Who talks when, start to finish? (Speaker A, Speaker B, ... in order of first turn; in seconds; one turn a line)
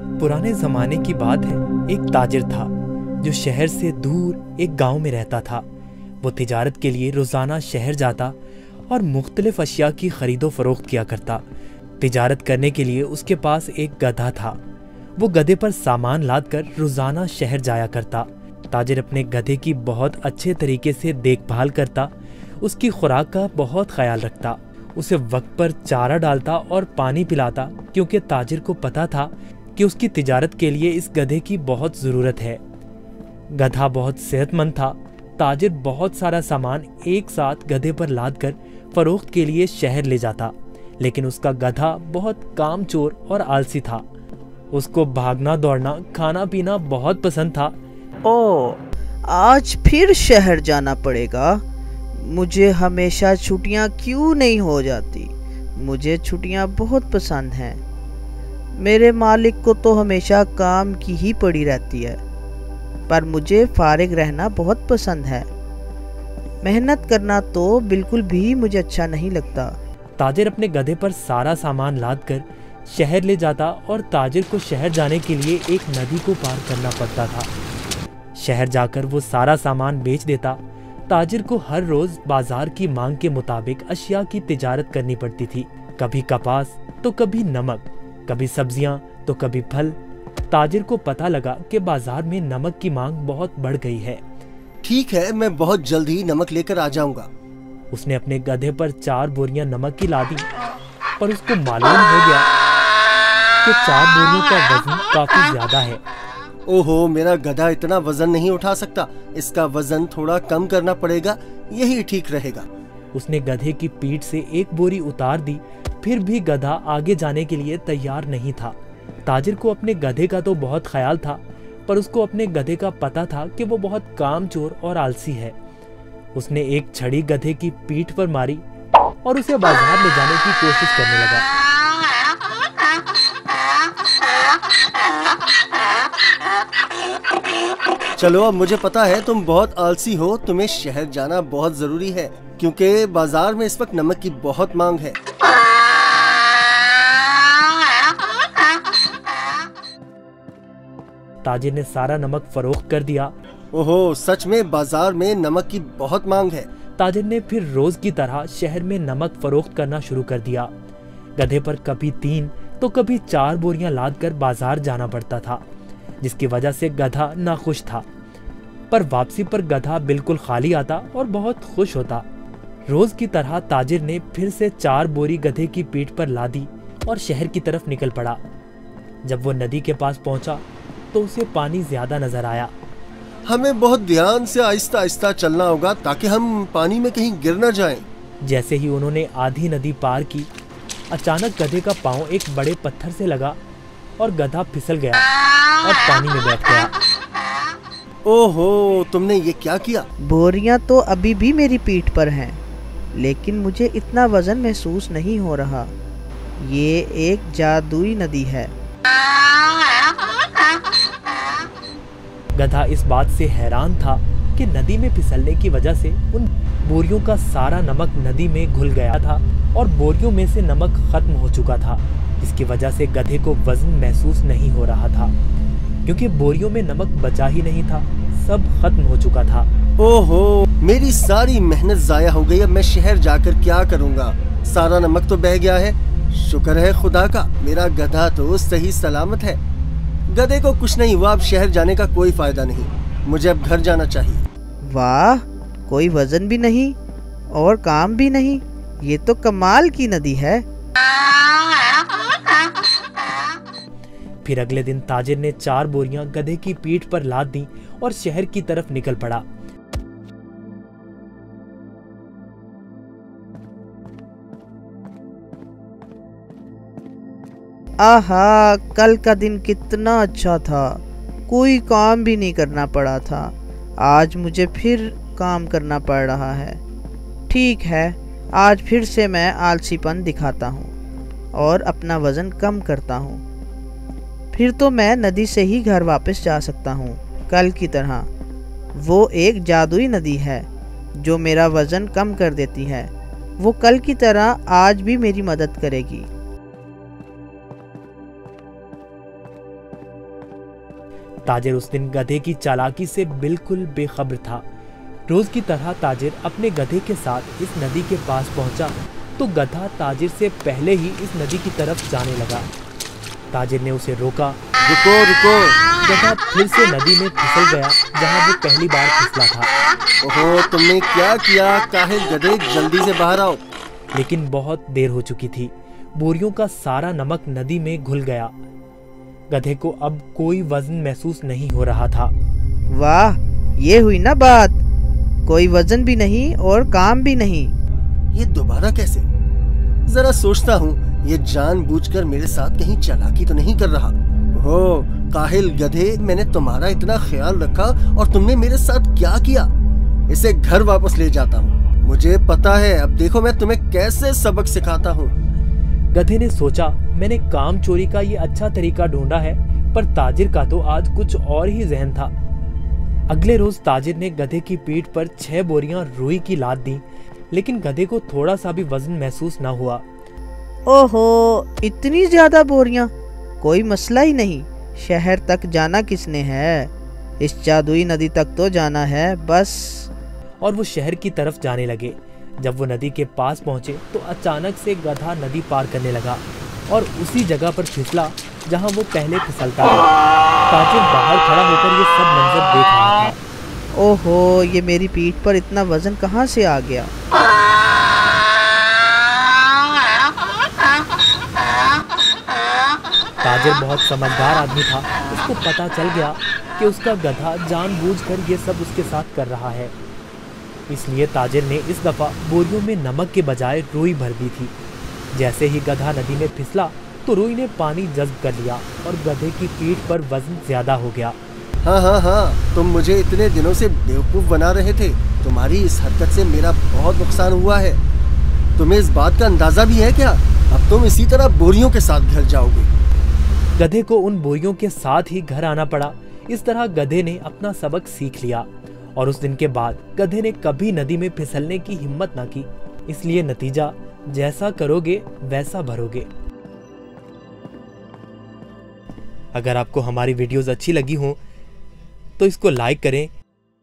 Speaker A: 0.2-5.6
Speaker A: 6.2-8.3
Speaker A: 8.9-11.4
Speaker A: 12.0-14.6
Speaker A: 15.2-32.6
Speaker A: 33.5-44.0
Speaker A: 44.7-47.7
Speaker B: 48.2-51.6
Speaker B: 52.1-57.8
Speaker B: 58.8-62.2
Speaker B: 63.1-65.5
Speaker B: 66.6-69.7
Speaker A: 70.2-77.5
Speaker A: 78.3-90.0
Speaker A: 90.5-94.2
Speaker C: 94.8-97.3
Speaker A: 97.9-100.5
Speaker A: 101.2-102.5
Speaker A: 103.6-106.0
Speaker C: 106.7-112.7
Speaker A: 113.1-125.5
Speaker A: 126.3-128.6
Speaker A: 129.2-131.4
Speaker C: 138.2-145.2
Speaker A: 151.4-153.3
Speaker C: 153.7-156.7
Speaker A: 157.0-160.7
Speaker A: 161.4-165.6
Speaker A: 166.2-168.1
Speaker A: 168.9-172.2
Speaker A: 172.9-178.4
Speaker A: 179.2-182.7
Speaker C: 183.5-188.0
Speaker A: 188.4-190.5
Speaker A: 191.1-193.6
Speaker A: 194.2-195.3
Speaker A: 195.8-196.9
Speaker C: 198.2-200.1
Speaker B: 200.2-202.6
Speaker B: 203.1-205.9
Speaker B: 206.6-208.7
Speaker A: 212.5-225.3
Speaker A: 226.0-229.7
Speaker C: 230.0-239.6
Speaker C: 240.3-244.4
Speaker B: 244.8-247.0
Speaker B: 247.5-250.6
Speaker A: 254.4-259.4
Speaker B: 268.0-276.8
Speaker B: 277.5-280.9
Speaker B: 281.5-283.4
Speaker B: 284.5-288.3
Speaker B: 288.9-296.3
Speaker A: 301.4-304.6
Speaker A: 305.3-312.6
Speaker A: 313.5-314.6
Speaker C: 314.8-315.8
Speaker A: 316.0-319.7
Speaker C: 320.2-323.6
Speaker A: 324.1-328.5
Speaker A: 329.5-332.3
Speaker B: 332.9-334.8
Speaker B: 335.4-337.7
Speaker C: 338.3-339.2
Speaker C: 340.1-349.7
Speaker C: 350.3-355.3
Speaker A: 356.1-362.3
Speaker A: 363.3-370.0
Speaker B: 370.9-380.1
Speaker A: 380.6-390.1
Speaker A: 390.7-393.4
Speaker B: 393.9-397.1
Speaker A: 403.4-409.9
Speaker A: 410.9-414.7
Speaker A: 415.3-421.4
Speaker C: 421.8-428.0
Speaker C: 428.8-432.9
Speaker A: 433.8-446.3
Speaker A: 449.5-451.4
Speaker A: 452.4-453.3